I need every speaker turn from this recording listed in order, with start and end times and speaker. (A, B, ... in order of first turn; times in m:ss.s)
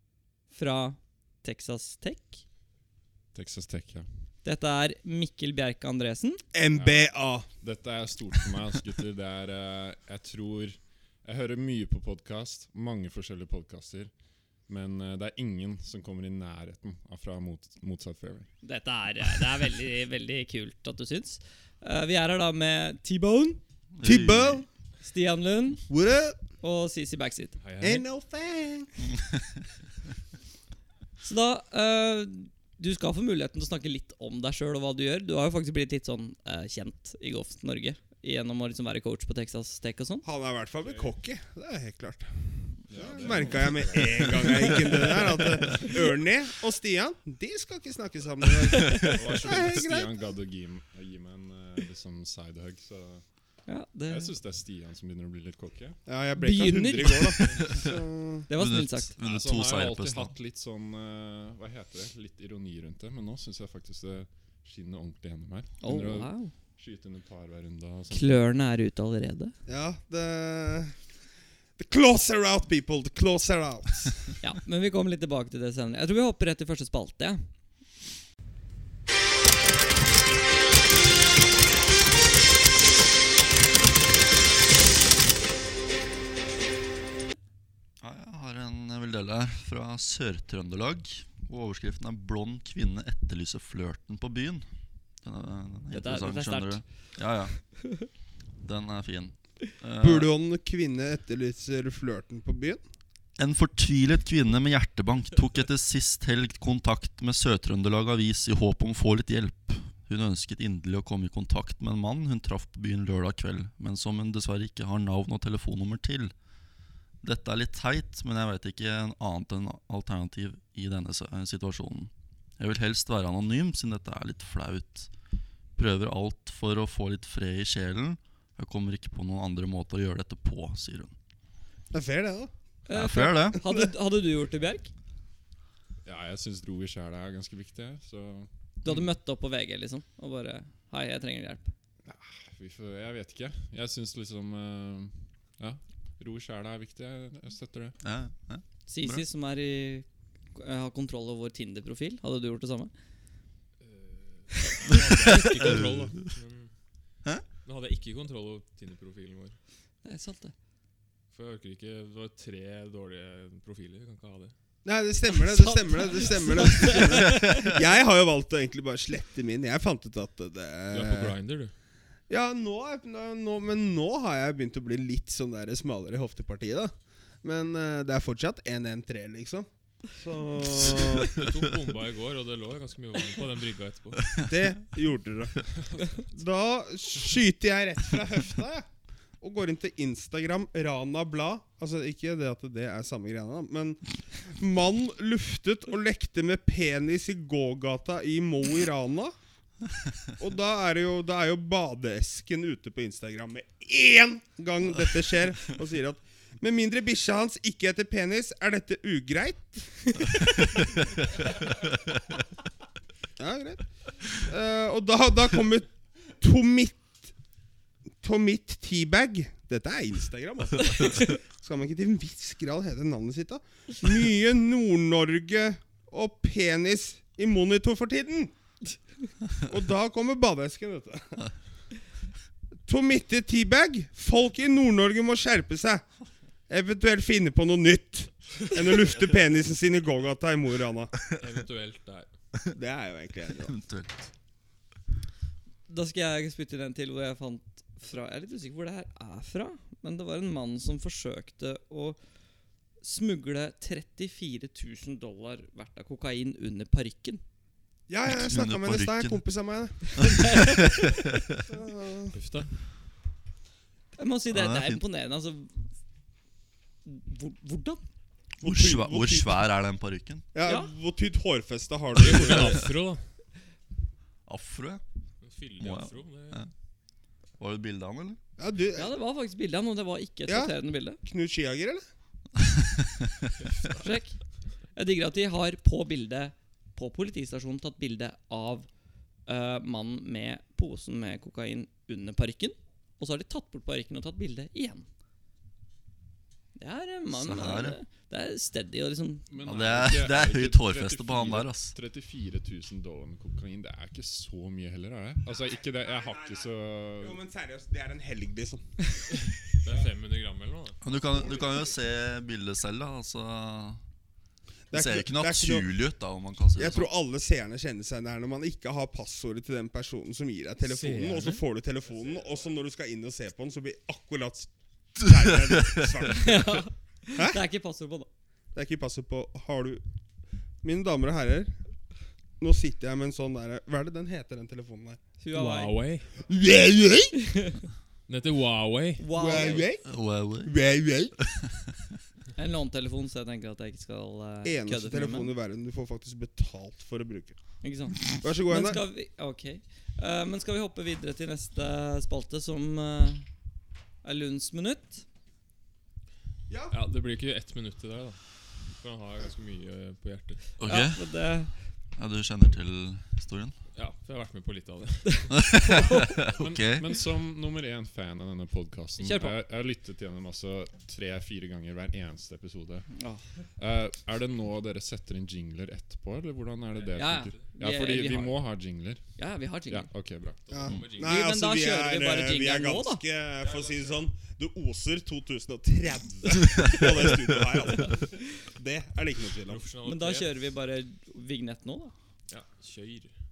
0:00.5-0:02.4 A
0:03.3-0:04.1 B
0:04.4-0:06.4 A
0:06.5-0:07.5 C
0:06.7-0:14.1 B
0:14.7-0:18.5 B
0:18.6-0:23.6 A
0:24.0-0:24.6 D
0:24.0-0:24.6 C
0:25.0-0:25.8 A
0:25.9-0:26.4 C
0:26.6-0:27.6 A
0:27.6-0:28.0 E
0:27.8-0:28.9 C
0:31.2-0:40.2 A
0:40.2-0:50.1 C
0:40.8-0:41.1 B
0:42.9-0:45.9 B
0:49.0-0:53.2 B
0:53.7-0:54.3 A
0:54.1-0:56.0 B
0:56.0-0:58.5 C
0:56.4-0:57.4 A
0:58.5-0:59.2 A
0:58.5-1:00.3 D
0:59.2-1:08.4 B
1:05.8-1:06.5 A
1:08.1-1:09.5 A
1:09.6-1:11.0 C
1:11.8-1:14.3 C
1:14.4-1:17.4 A
1:28.0-1:34.6 D
1:35.2-1:37.7 D
1:35.9-1:36.8 A
1:38.6-1:40.3 D
1:40.0-1:42.8 C
1:43.4-1:56.3 D
1:57.2-2:05.1 D
2:05.8-2:11.1 D
2:11.9-2:12.5 C
2:12.9-2:14.9 A
2:12.9-2:13.6 D
2:16.0-2:18.5 B
2:18.8-2:21.7 A
2:22.0-2:28.0 B
2:28.0-2:29.2 D
2:28.9-2:32.9 A
2:33.8-2:36.7 E
2:35.3-2:36.1 D
2:37.6-2:39.6 E
2:40.0-2:40.5 A
2:41.3-2:44.5 E
2:44.8-2:51.3 C
2:45.3-2:47.8 A
2:50.9-2:51.7 E
2:52.3-3:01.4 C
3:01.2-3:04.3 E
3:04.4-3:08.8 C
3:09.4-3:19.3 C
3:20.4-3:30.9 C
3:33.4-3:37.1 C
3:38.2-3:48.5 C
3:49.6-3:51.4 C
3:52.8-3:56.0 C
3:56.7-4:01.1 C
4:01.3-4:02.3 E
4:02.7-4:03.8 C
4:03.6-4:04.1 D
4:05.9-4:12.2 A
4:13.0-4:17.4 A
4:18.1-4:20.6 C
4:18.3-4:19.4 D
4:20.2-4:21.1 A
4:20.2-4:21.6 D
4:21.7-4:22.4 C
4:22.3-4:22.7 E
4:24.2-4:25.9 A
4:24.5-4:25.0 D
4:27.0-4:28.0 A
4:28.6-4:29.6 C
4:28.6-4:30.4 D
4:30.5-4:32.9 C
4:30.6-4:30.9 A
4:32.1-4:33.2 E
4:34.4-4:35.0 D
4:35.4-4:36.6 E
4:35.8-4:36.7 D
4:37.6-4:38.4 D
4:38.6-4:39.1 C
4:38.9-4:41.2 A
4:40.5-4:42.0 C
4:43.6-4:44.1 E
4:44.0-4:44.4 A
4:44.9-4:48.9 A
4:49.5-4:55.0 A
4:56.8-4:59.5 A
4:57.3-4:58.0 D
4:59.5-5:07.4 B
4:59.6-5:01.9 D
5:05.7-5:06.6 C
5:07.2-5:09.5 C
5:09.8-5:11.0 E
5:11.0-5:14.0 D
5:11.1-5:11.9 C
5:14.9-5:15.8 C
5:14.9-5:17.1 D
5:16.8-5:27.6 C
5:20.8-5:21.6 E
5:26.3-5:28.3 A
5:28.7-5:30.0 C
5:30.8-5:31.8 C
5:32.6-5:35.2 C
5:35.4-5:36.0 A
5:35.5-5:36.3 E
5:36.4-5:37.4 C
5:37.4-5:37.9 A
5:38.3-5:39.7 E
5:39.2-5:39.9 A
5:39.3-5:41.4 C
5:40.0-5:40.7 D
5:42.6-5:45.5 A
5:44.6-5:47.6 C
5:47.8-5:53.4 A
5:48.4-5:49.0 C
5:54.2-5:55.2 A
5:56.7-5:57.0 C
5:56.9-5:58.4 E
5:59.0-6:00.6 E
6:00.8-6:01.2 D
6:00.8-6:01.7 A
6:02.2-6:03.7 D
6:03.9-6:05.4 E
6:05.4-6:06.3 A
6:05.6-6:07.0 D
6:06.2-6:13.1 B
6:09.2-6:09.6 A
6:13.1-6:13.4 A
6:13.8-6:19.2 B
6:17.0-6:17.6 E
6:17.1-6:18.6 A
6:19.4-6:20.1 A
6:19.9-6:21.1 B
6:20.7-6:21.4 E
6:20.7-6:29.8 C
6:21.2-6:23.2 A
6:29.6-6:30.5 E
6:30.0-6:32.1 A
6:32.5-6:33.3 E